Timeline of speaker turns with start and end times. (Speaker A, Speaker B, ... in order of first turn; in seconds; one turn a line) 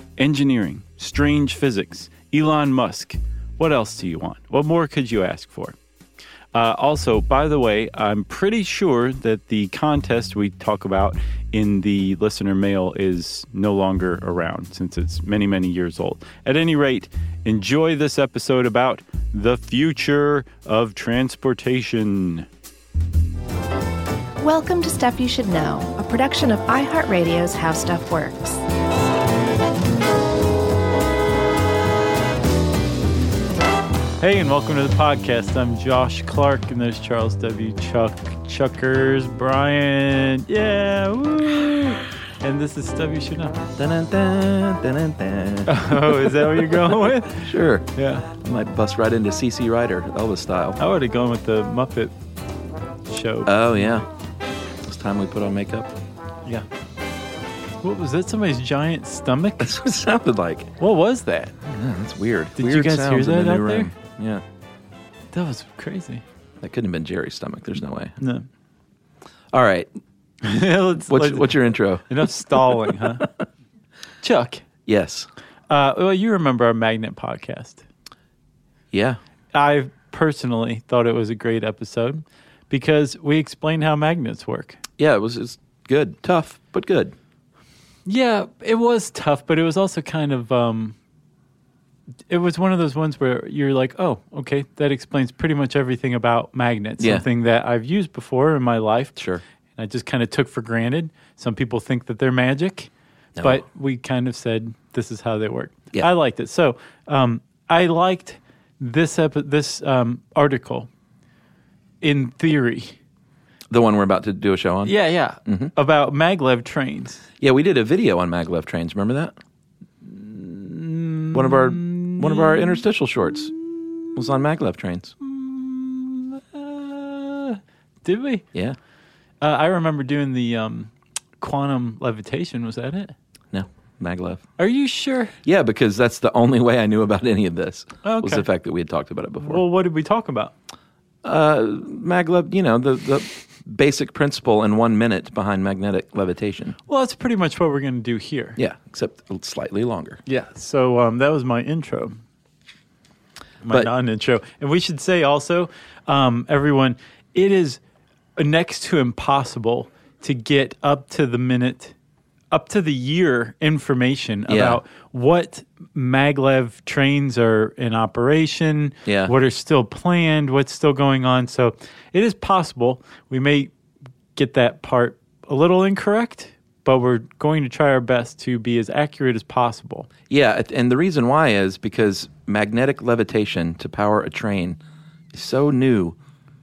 Speaker A: 0.2-5.8
Speaker A: 6.5-22.5
Speaker B: 24.4-28.6
Speaker A: 34.2-43.6
Speaker C: 43.8-50.8
Speaker A: 45.7-48.3
Speaker A: 50.8-52.1
Speaker A: 53.1-53.5
Speaker C: 53.5-54.1
Speaker C: 54.8-55.9
Speaker A: 57.8-59.7
Speaker C: 59.6-60.7
Speaker A: 60.8-61.5
Speaker C: 61.6-64.4
Speaker A: 62.5-63.9
Speaker A: 65.3-66.2
Speaker C: 66.6-68.2
Speaker A: 68.2-68.5
Speaker C: 69.5-69.9
Speaker A: 70.4-71.5
Speaker C: 71.1-73.2
Speaker A: 72.0-73.3
Speaker A: 74.2-74.6
Speaker C: 74.8-75.3
Speaker A: 75.7-77.8
Speaker C: 78.9-79.2
Speaker A: 79.5-84.8
Speaker C: 85.0-87.1
Speaker A: 88.0-91.0
Speaker A: 92.3-99.2
Speaker C: 97.0-97.2
Speaker C: 99.2-99.4
Speaker A: 99.8-110.9
Speaker C: 103.3-103.6
Speaker A: 112.0-113.0
Speaker C: 113.7-114.9
Speaker A: 114.8-117.2
Speaker C: 115.4-115.7
Speaker C: 117.4-119.3
Speaker A: 120.0-122.8
Speaker C: 121.3-123.5
Speaker A: 123.5-124.2
Speaker C: 124.1-125.1
Speaker A: 125.2-128.4
Speaker A: 129.4-133.1
Speaker C: 133.5-134.4
Speaker A: 134.6-135.3
Speaker C: 135.4-139.6
Speaker A: 138.0-138.4
Speaker A: 139.4-140.5
Speaker C: 141.2-146.8
Speaker A: 146.9-148.6
Speaker C: 148.6-150.2
Speaker A: 150.2-152.2
Speaker A: 153.6-157.8
Speaker A: 158.4-161.9
Speaker A: 162.5-173.7
Speaker C: 164.5-164.8
Speaker C: 169.1-169.3
Speaker A: 174.3-180.1
Speaker C: 180.3-184.8
Speaker C: 185.3-186.2